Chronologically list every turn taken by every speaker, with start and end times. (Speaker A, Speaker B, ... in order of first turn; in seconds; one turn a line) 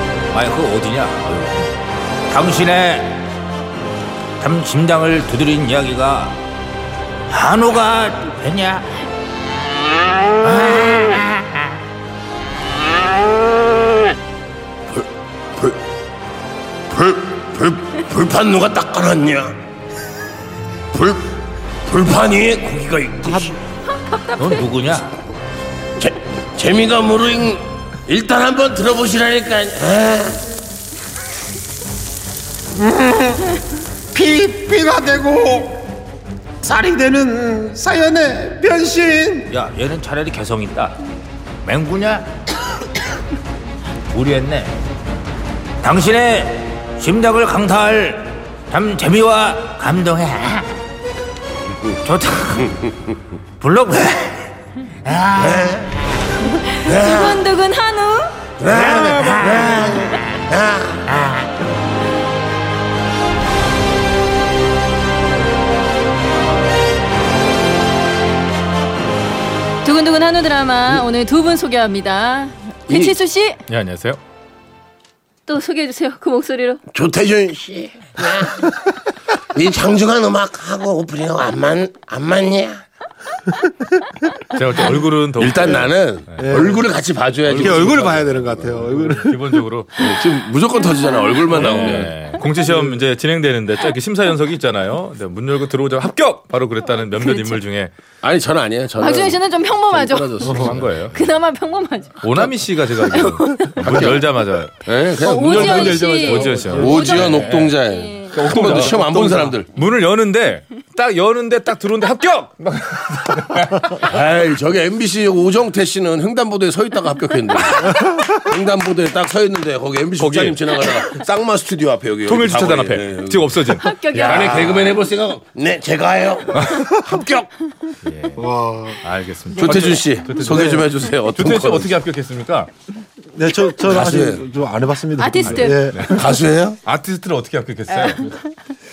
Speaker A: 0.3-1.7
Speaker A: 2.3-3.2
Speaker A: 4.4-6.4
Speaker A: 7.3-8.9
Speaker A: 10.4-11.2
Speaker B: 14.9-15.8
Speaker B: 16.9-19.6
Speaker B: 20.9-23.6
Speaker A: 24.3-25.2
Speaker B: 26.0-30.4
Speaker C: 33.0-33.4
Speaker C: 34.1-35.8
Speaker C: 36.6-39.5
Speaker A: 39.5-41.0
Speaker A: 41.6-42.3
Speaker A: 44.1-44.8
Speaker A: 45.8-50.7
Speaker A: 52.0-52.8
Speaker A: 53.6-54.5
Speaker A: 55.0-55.7
Speaker B: 55.4-56.0
Speaker D: 56.6-58.4
Speaker B: 56.8-57.5
Speaker B: 58.6-61.2
Speaker A: 58.8-59.8
Speaker D: 69.8-73.6
Speaker B: 72.9-73.1
Speaker E: 73.7-74.2
Speaker A: 73.8-74.2
Speaker D: 75.5-76.8
Speaker B: 76.9-82.8
Speaker A: 84.6-85.4
Speaker E: 84.7-86.6
Speaker B: 85.4-88.5
Speaker C: 86.4-86.9
Speaker E: 87.4-90.0
Speaker C: 87.6-89.6
Speaker B: 90.0-92.1
Speaker E: 91.5-97.9
Speaker D: 97.2-97.6
Speaker B: 98.2-101.1
Speaker D: 99.0-103.7
Speaker E: 100.5-101.1
Speaker E: 102.2-107.7
Speaker B: 103.8-104.2
Speaker B: 104.8-106.1
Speaker D: 105.2-108.4
Speaker B: 106.6-109.7
Speaker E: 108.4-111.3
Speaker A: 109.8-112.6
Speaker E: 112.6-113.8
Speaker B: 114.0-127.5
Speaker E: 120.2-120.5
Speaker E: 122.3-124.9
Speaker D: 123.8-124.9
Speaker C: 128.3-129.0
Speaker E: 129.2-130.8
Speaker A: 129.4-129.8
Speaker D: 129.5-129.8
Speaker B: 129.6-131.9
Speaker C: 130.4-130.9
Speaker E: 131.3-132.7
Speaker C: 133.3-136.3
Speaker B: 133.8-134.4
Speaker D: 135.2-135.8
Speaker E: 135.4-136.2
Speaker B: 136.1-136.8
Speaker E: 136.8-138.3
Speaker D: 137.9-138.3